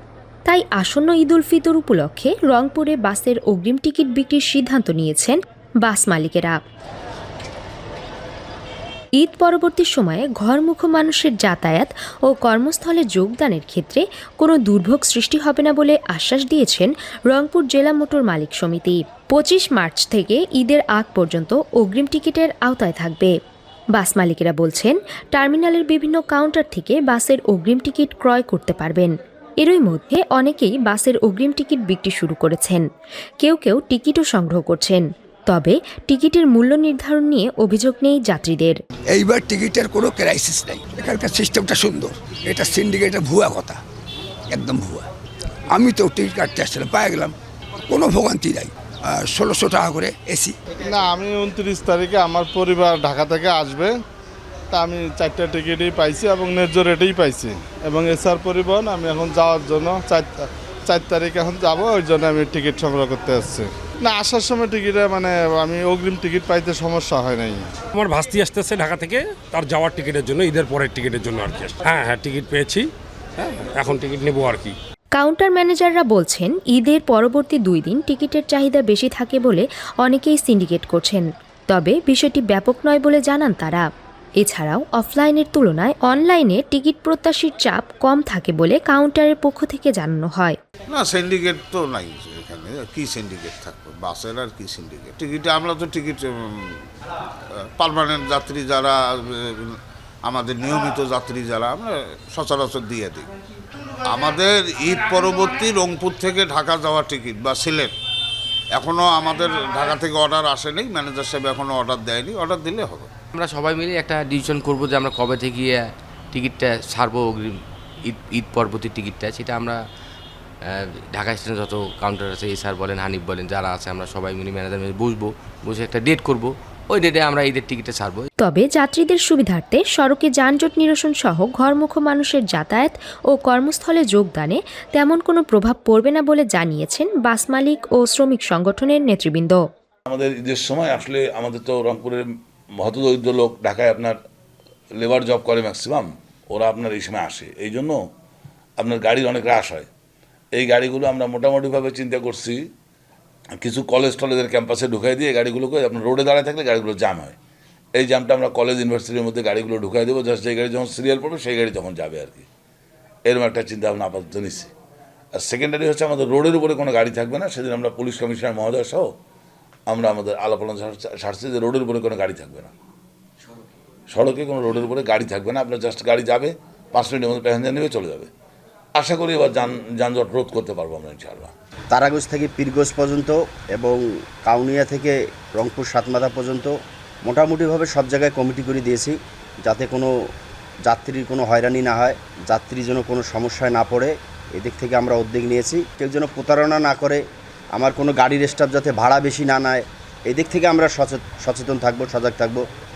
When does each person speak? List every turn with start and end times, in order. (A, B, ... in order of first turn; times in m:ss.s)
0:00.5-0:06.6 A
0:09.2-0:23.3 A
0:23.9-0:32.8 A
0:33.4-0:38.8 A
0:39.1-0:43.8 B
0:44.5-0:45.1 B
0:45.7-0:47.4 B
0:47.9-0:50.6 B
0:50.8-0:54.0 C
0:54.7-1:07.7 C
1:08.0-1:12.9 D
1:13.4-1:14.8 D
1:15.1-1:23.8 A
1:24.4-1:30.6 A
1:30.9-1:36.8 E
1:37.8-1:43.3 E
1:44.1-1:47.9 E
1:48.7-1:53.1 E
1:53.4-1:57.5 F
1:58.1-1:59.8 F
2:00.7-2:08.3 F
2:08.4-2:19.6 A
2:20.1-2:22.3 G
2:22.8-2:24.2 G
2:25.0-2:28.0 G
2:28.8-2:29.9 G
2:30.5-2:32.6 G
2:33.6-2:37.4 G
2:38.0-2:42.5 G
2:43.3-2:44.7 G
2:45.4-2:49.1 G
2:49.9-2:52.7 G
2:54.1-2:58.3 G
2:59.0-3:01.5 G
3:01.9-3:10.1 H
3:10.9-3:17.2 H
3:17.8-3:22.6 H